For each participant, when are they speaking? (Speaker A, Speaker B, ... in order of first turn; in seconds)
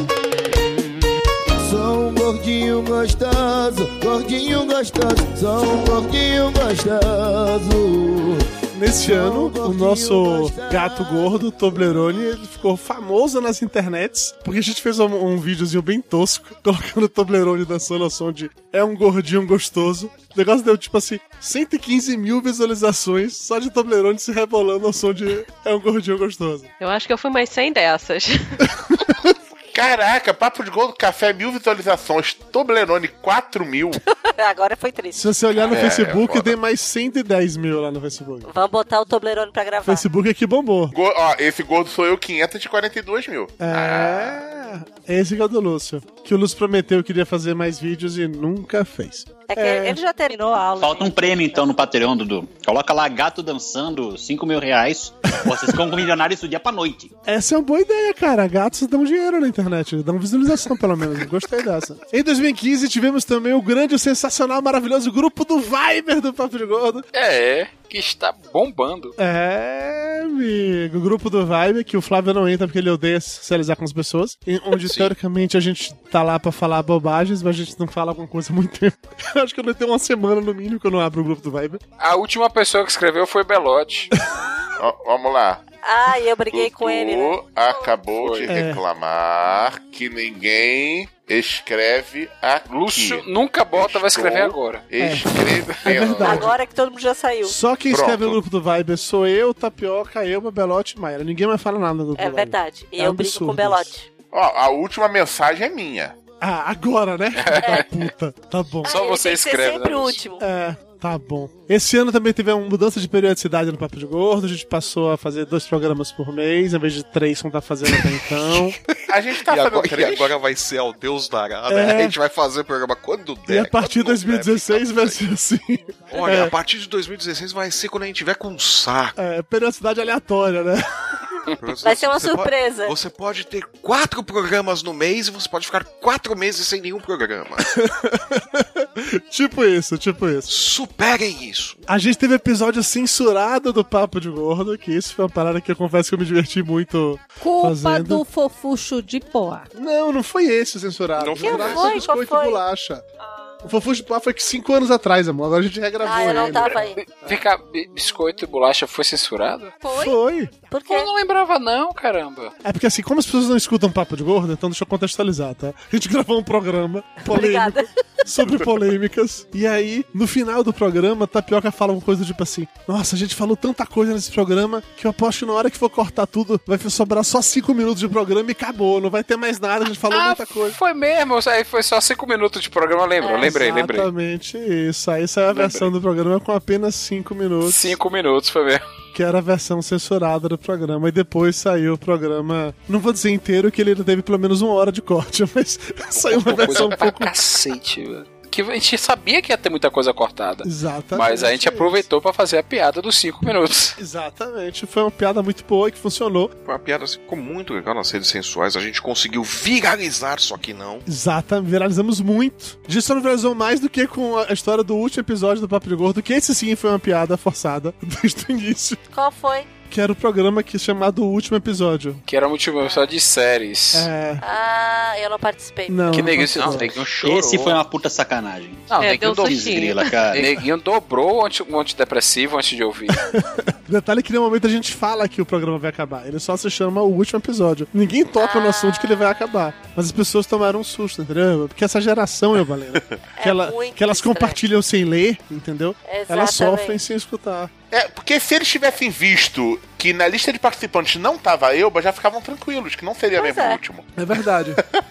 Speaker A: 1.6-12.0
Speaker B: 8.7-26.7, 29.0-29.3, 35.1-38.5, 39.9-40.9, 43.6-50.0, 57.3-67.1, 69.2-81.8, 88.5-88.8, 95.0-96.5, 97.5-103.9, 106.4-109.0, 110.4-118.8, 121.7-122.2, 123.5-126.5, 129.2-130.8, 137.7-140.6, 141.9-148.2, 149.7-153.1, 153.6-157.4, 159.9-160.5, 162.6-180.8, 183.4-188.0, 189.1-197.3, 200.6-202.1, 204.0-206.5, 211.1-219.0, 219.9-222.2, 223.9-224.4, 225.9-227.0, 233.3-247.7, 254.2-254.8
Speaker C: 26.8-28.6, 229.0-230.4
Speaker D: 29.7-34.0, 40.9-44.4, 84.8-85.6, 86.5-96.5, 97.9-98.4, 104.3-106.2, 119.1-120.3, 247.9-254.1
Speaker E: 34.4-35.3, 38.5-40.0, 49.5-51.7, 85.8-87.4, 96.2-97.6, 102.2-104.1, 108.8-110.4, 131.8-132.9, 151.4-152.6, 156.0-157.0, 160.7-161.1, 167.3-167.9, 183.2-183.6, 219.1-219.7, 224.4-226.6, 238.4-239.3, 243.4-244.6, 246.1-247.0, 253.4-253.8
Speaker F: 35.6-36.5, 119.5-125.2, 126.1-129.2, 131.6-137.7, 140.5-141.8, 151.2-152.0, 206.7-211.1
Speaker G: 50.8-57.1, 227.1-230.6
Speaker H: 67.1-69.1, 74.8-75.1, 82.0-84.1, 88.2-88.5, 92.7-94.9, 107.3-108.0, 108.9-110.2, 156.3-159.8, 160.9-162.5, 180.1-184.1, 185.5-185.9, 187.6-188.8, 196.1-204.0, 222.3-224.1, 226.1-227.8, 228.9-233.2
Speaker I: 147.4-149.7, 159.8-160.2